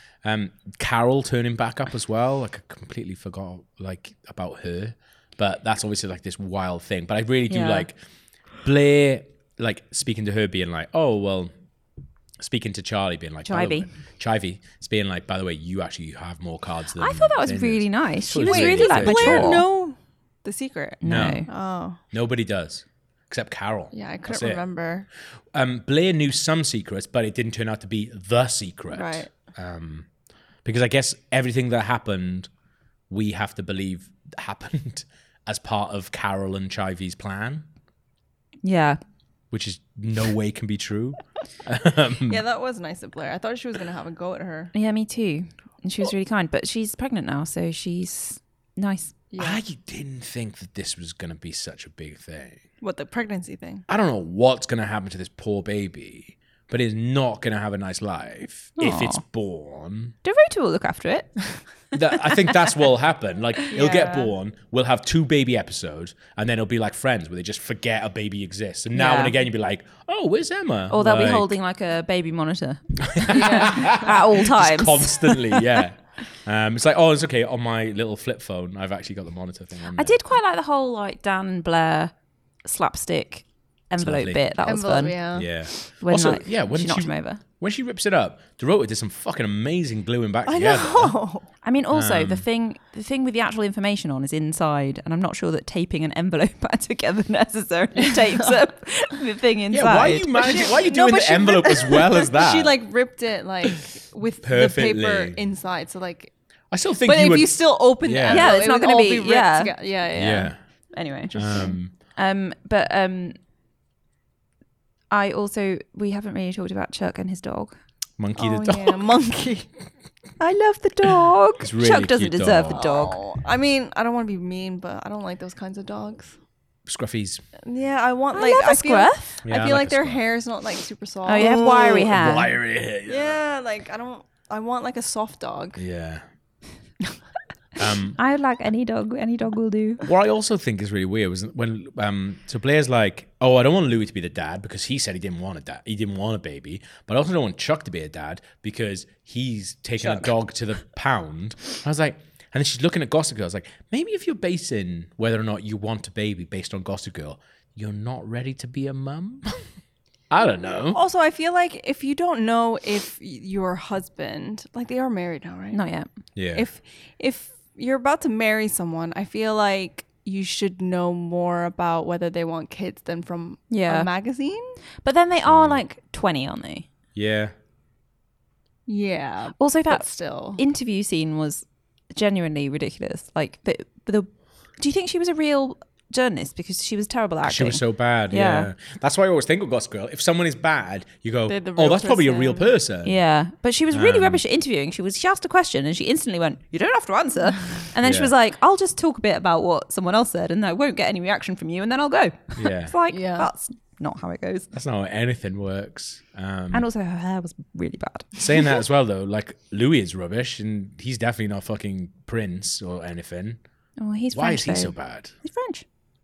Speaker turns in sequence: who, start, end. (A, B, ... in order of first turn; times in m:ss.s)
0:00.2-0:08.0 A
0:07.5-0:07.9 B
0:08.6-0:11.5 A
0:12.4-0:19.6 A
0:13.4-0:13.9 B
0:17.0-0:19.6 B
0:18.4-0:22.0 C
0:21.0-0:21.5 B
0:21.0-0:21.4 A
0:22.1-0:24.6 A
0:23.9-0:25.1 C
0:25.5-0:30.1 A
0:28.9-0:29.3 C
0:30.6-0:32.5 A
0:33.1-0:37.7 A
0:38.6-0:39.0 B
0:39.5-0:42.4 A
0:42.2-0:44.7 C
0:44.7-0:49.1 B
0:49.3-0:49.6 C
0:49.4-0:52.6 A
0:52.8-0:53.8 C
0:53.9-1:00.1 A
0:58.8-0:59.2 B
1:00.2-1:01.4 B
1:01.9-1:11.5 A
1:02.0-1:02.4 B
1:03.7-1:04.3 C
1:08.9-1:09.4 B
1:10.9-1:15.6 B
1:13.1-1:20.2 A
1:13.3-1:14.0 C
1:19.9-1:22.1 B
1:22.6-1:25.2 B
1:24.0-1:24.4 A
1:24.6-1:25.6 C
1:25.3-1:31.1 A
1:26.0-1:27.4 B
1:30.4-1:31.4 C
1:31.6-1:40.3 B
1:31.9-1:32.4 A
1:39.7-1:42.8 A
1:40.3-1:46.3 C
1:44.4-1:45.4 A
1:46.7-1:48.5 A
1:47.0-1:50.5 C
1:48.2-1:49.7 B
1:50.1-1:50.6 A
1:50.9-1:53.3 B
1:51.3-1:51.7 C
1:51.3-1:51.9 A
1:55.1-1:57.8 B
1:58.2-1:59.0 A
1:58.4-1:59.7 C
2:00.4-2:03.2 B
2:01.6-2:02.8 A
2:02.7-2:06.4 C
2:06.8-2:07.4 A
2:07.6-2:11.9 C
2:08.3-2:09.4 B
2:09.4-2:10.2 A
2:11.2-2:12.5 B
2:11.4-2:13.4 A
2:13.0-2:15.8 C
2:15.8-2:16.2 A
2:17.8-2:18.2 A
2:18.2-2:20.0 B
2:20.0-2:39.6 A
2:40.3-2:41.0 A
2:40.9-2:45.8 C
2:45.7-2:46.1 B
2:46.4-2:46.6 A
2:46.5-2:54.8 C
2:53.7-2:54.1 B
2:55.0-2:56.9 B
2:55.4-2:55.8 A
2:57.1-2:57.5 A
2:58.9-3:00.6 C
2:59.6-3:08.7 B
3:07.4-3:13.2 A
3:11.5-3:12.7 C
3:13.0-3:24.7 B
3:13.9-3:14.4 A
3:18.0-3:18.3 A
3:22.6-3:22.9 A
3:23.1-3:23.5 C
3:24.7-3:26.8 A
3:26.7-3:28.4 B
3:28.4-3:33.6 A
3:34.0-3:35.8 B
3:34.3-3:35.3 A